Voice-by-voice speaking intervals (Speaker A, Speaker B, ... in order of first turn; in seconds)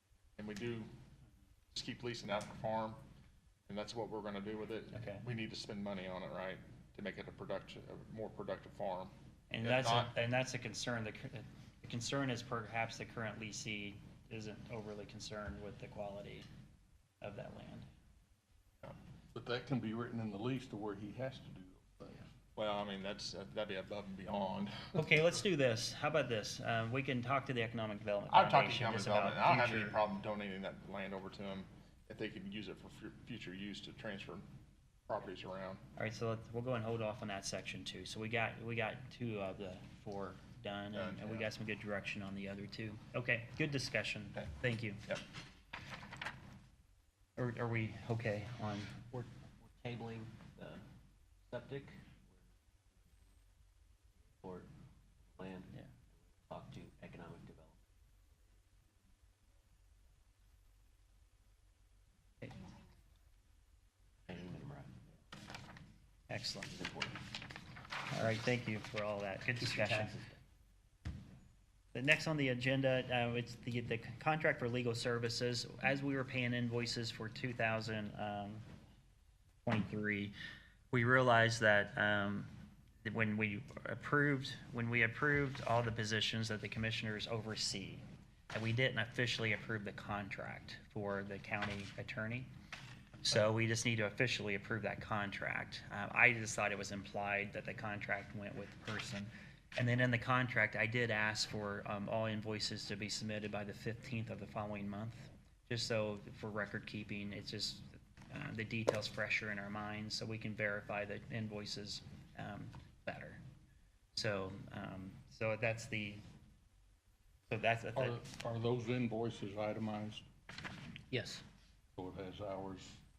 Speaker A: 0.4-0.9, 1.7-3.0, 3.7-10.1, 22.6-25.1, 28.3-34.5, 35.1-35.8, 40.9-41.5
Speaker B: 4.9-5.2, 9.5-16.5, 17.2-17.9, 24.9-30.0, 36.0-45.1, 47.4-49.1, 66.3-66.7, 68.1-70.1, 71.9-78.6, 79.6-80.3, 80.9-82.5, 83.0-92.5, 93.2-113.4, 114.1-116.2, 117.5-118.2
Speaker C: 19.3-22.3, 118.0-120.2, 122.0-123.0
Speaker D: 49.1-50.8, 51.5-52.4, 54.4-54.7, 55.2-57.8, 64.3-64.9, 66.7-67.2, 69.6-70.4, 121.1-121.4